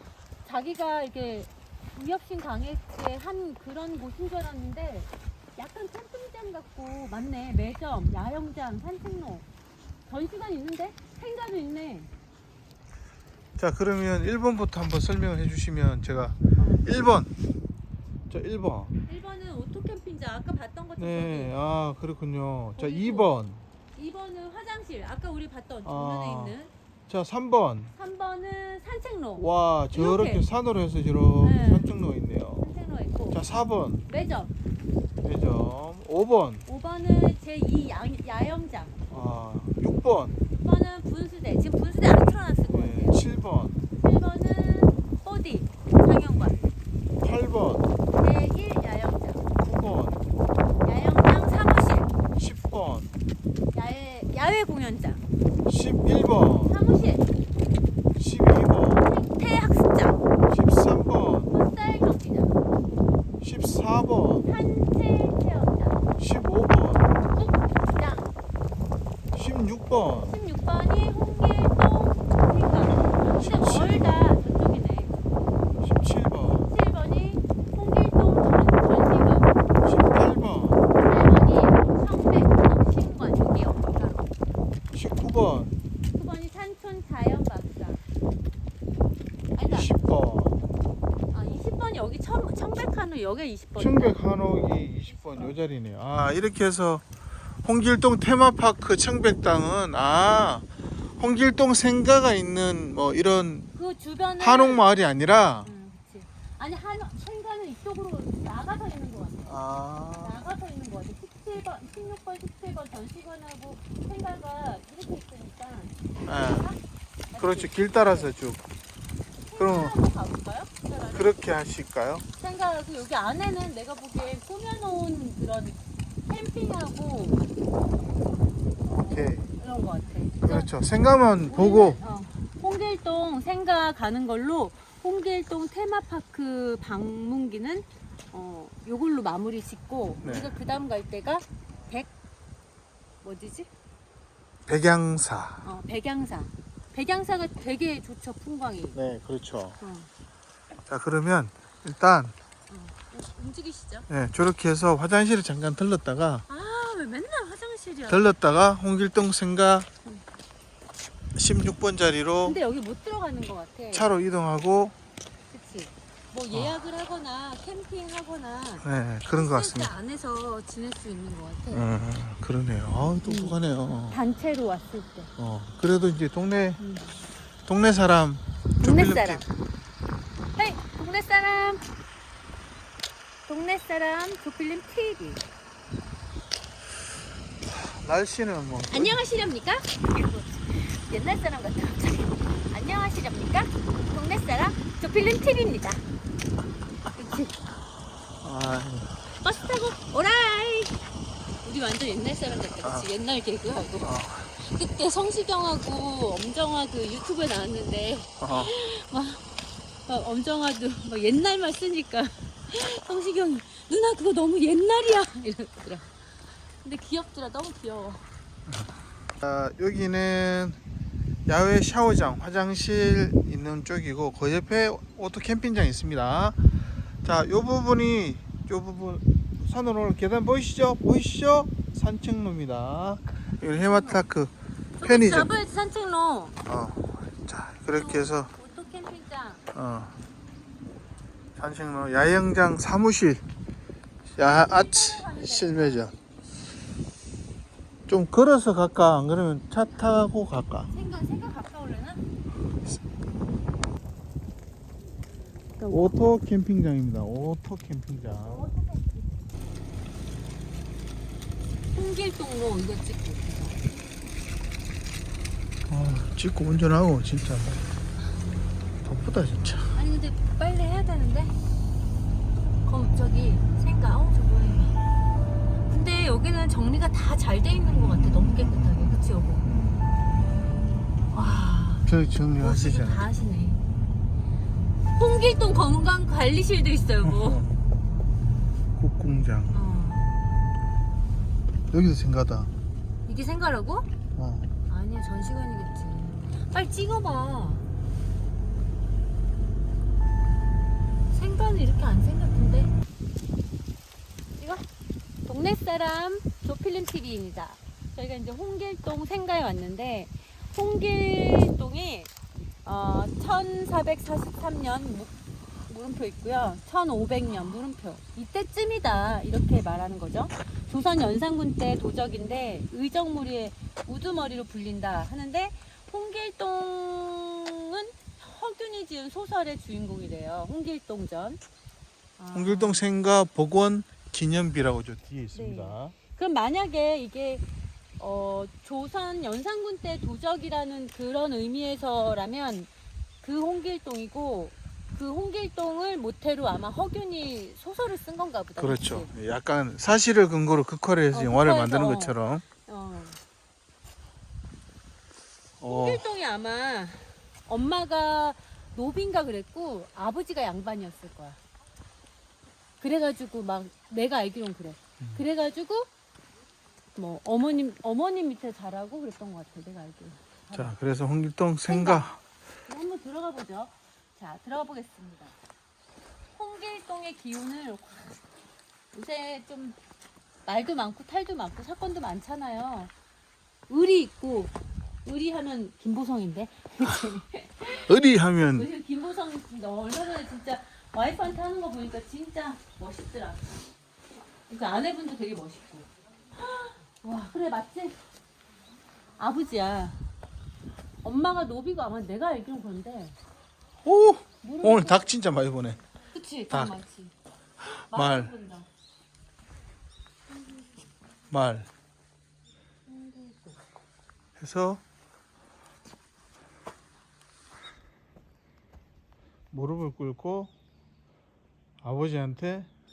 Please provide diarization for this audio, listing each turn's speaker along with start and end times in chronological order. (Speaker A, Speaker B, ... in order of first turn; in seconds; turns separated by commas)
Speaker A: 0.4-9.4, Speaker A: 10.1-12.1, Speaker B: 13.6-17.3, Speaker A: 16.6-16.8, Speaker B: 18.3-18.9, Speaker A: 19.1-21.6, Speaker B: 21.0-23.6, Speaker A: 22.8-23.3, Speaker A: 23.9-26.7, Speaker B: 25.8-26.6, Speaker B: 27.1-27.9, Speaker A: 27.9-30.4, Speaker B: 29.4-32.7, Speaker A: 31.4-31.9, Speaker A: 32.6-33.4, Speaker B: 33.3-34.0, Speaker A: 34.0-34.5, Speaker B: 35.2-36.6, Speaker A: 36.6-39.0, Speaker B: 39.1-40.4, Speaker A: 40.5-43.2, Speaker B: 42.7-43.8, Speaker A: 44.0-46.7, Speaker B: 47.2-47.9, Speaker A: 48.1-49.5, Speaker B: 49.6-50.2, Speaker A: 50.8-52.1, Speaker B: 52.4-53.1, Speaker A: 53.7-55.2, Speaker B: 55.6-56.8, Speaker A: 56.7-57.3, Speaker B: 58.1-59.1, Speaker A: 59.0-60.2, Speaker B: 60.5-61.5, Speaker A: 61.5-62.6, Speaker B: 63.4-64.5, Speaker A: 64.4-66.1, Speaker B: 66.2-67.1, Speaker A: 67.3-68.3, Speaker B: 69.3-70.3, Speaker A: 70.1-75.2, Speaker B: 73.4-74.2, Speaker B: 75.8-76.7, Speaker A: 76.6-79.5, Speaker B: 79.8-80.8, Speaker A: 80.9-84.3, Speaker B: 84.9-85.8, Speaker A: 86.1-88.0, Speaker A: 89.5-89.9, Speaker B: 89.7-90.6, Speaker A: 91.3-94.2, Speaker B: 93.8-97.0, Speaker A: 95.1-95.5, Speaker B: 97.6-103.7, Speaker A: 103.8-104.8, Speaker B: 104.4-105.7, Speaker A: 105.6-109.6, Speaker B: 109.5-110.4, Speaker A: 110.2-116.8, Speaker B: 116.2-116.7, Speaker A: 117.3-118.3, Speaker B: 117.4-118.6, Speaker A: 119.5-121.3, Speaker B: 119.6-120.0, Speaker B: 121.1-122.2, Speaker A: 122.4-127.4, Speaker A: 128.8-130.7, Speaker B: 128.9-129.5, Speaker B: 130.4-132.0, Speaker A: 131.5-142.1, Speaker B: 140.2-140.6, Speaker A: 143.2-143.7, Speaker B: 144.7-145.7, Speaker A: 145.6-149.0, Speaker B: 148.9-149.8, Speaker A: 149.8-150.1, Speaker B: 150.9-152.3, Speaker A: 152.7-154.1, Speaker B: 154.1-156.4, Speaker A: 156.5-158.3, Speaker B: 158.1-159.9, Speaker B: 161.3-162.6, Speaker A: 162.4-164.1, Speaker B: 163.9-164.9, Speaker A: 165.5-171.9, Speaker B: 168.8-169.9, Speaker B: 171.7-174.2, Speaker A: 173.2-173.6, Speaker A: 174.1-175.3, Speaker B: 175.4-176.8, Speaker A: 176.8-177.1, Speaker B: 177.7-179.4, Speaker A: 178.8-179.4, Speaker A: 180.5-181.9, Speaker A: 183.4-185.4, Speaker B: 187.6-189.2, Speaker A: 188.9-196.0, Speaker A: 197.1-197.6, Speaker B: 198.4-199.1, Speaker A: 199.3-201.0, Speaker A: 201.6-216.1, Speaker B: 202.8-203.0, Speaker B: 204.0-204.5, Speaker B: 208.4-208.7, Speaker A: 216.8-218.2, Speaker B: 218.7-220.8, Speaker B: 221.5-226.6, Speaker B: 227.2-235.5, Speaker A: 233.8-234.2, Speaker A: 235.0-236.6, Speaker B: 236.7-238.5, Speaker A: 237.9-239.6, Speaker B: 239.7-240.1, Speaker B: 241.6-243.4, Speaker B: 244.3-246.1, Speaker A: 244.4-246.1, Speaker B: 248.1-250.9, Speaker A: 250.9-252.2, Speaker A: 255.8-256.2, Speaker B: 255.9-258.6, Speaker A: 258.4-259.2, Speaker A: 261.9-263.9, Speaker B: 265.9-267.8, Speaker A: 268.2-268.5, Speaker B: 269.0-269.9, Speaker A: 269.9-271.6, Speaker A: 272.8-275.0, Speaker A: 275.9-279.7, Speaker B: 277.9-280.0, Speaker A: 281.3-282.1, Speaker B: 282.1-283.3, Speaker A: 282.6-283.8, Speaker A: 285.1-287.6, Speaker B: 287.2-287.8, Speaker B: 288.9-289.8, Speaker A: 289.7-290.3, Speaker B: 291.9-292.7, Speaker A: 293.2-294.1, Speaker B: 294.4-294.7, Speaker A: 294.9-297.8, Speaker A: 301.3-302.9, Speaker A: 304.6-304.9, Speaker A: 305.4-312.3, Speaker A: 312.8-331.6, Speaker A: 332.4-333.1, Speaker B: 332.5-336.1, Speaker A: 335.5-337.6, Speaker A: 338.2-342.9, Speaker A: 343.4-349.3, Speaker B: 348.8-352.6, Speaker A: 351.3-353.4, Speaker B: 355.8-356.2, Speaker A: 355.8-361.6, Speaker A: 363.0-366.1, Speaker A: 367.1-370.9, Speaker B: 370.7-372.4, Speaker A: 371.9-372.2, Speaker A: 372.9-375.6, Speaker A: 376.5-378.4, Speaker A: 379.1-380.0, Speaker A: 380.6-383.1, Speaker A: 383.9-384.7, Speaker A: 385.2-388.2, Speaker B: 388.0-388.9, Speaker A: 388.7-393.6, Speaker A: 394.7-396.1, Speaker A: 396.6-398.2, Speaker A: 399.4-400.2, Speaker A: 401.2-403.4, Speaker B: 404.0-406.0, Speaker A: 404.6-405.3, Speaker A: 406.3-407.3, Speaker B: 406.7-406.9, Speaker B: 407.9-408.5, Speaker A: 408.1-408.9, Speaker A: 410.5-410.8, Speaker B: 411.5-411.9, Speaker A: 413.1-413.8, Speaker B: 414.6-415.0, Speaker B: 419.7-420.7, Speaker B: 422.0-422.9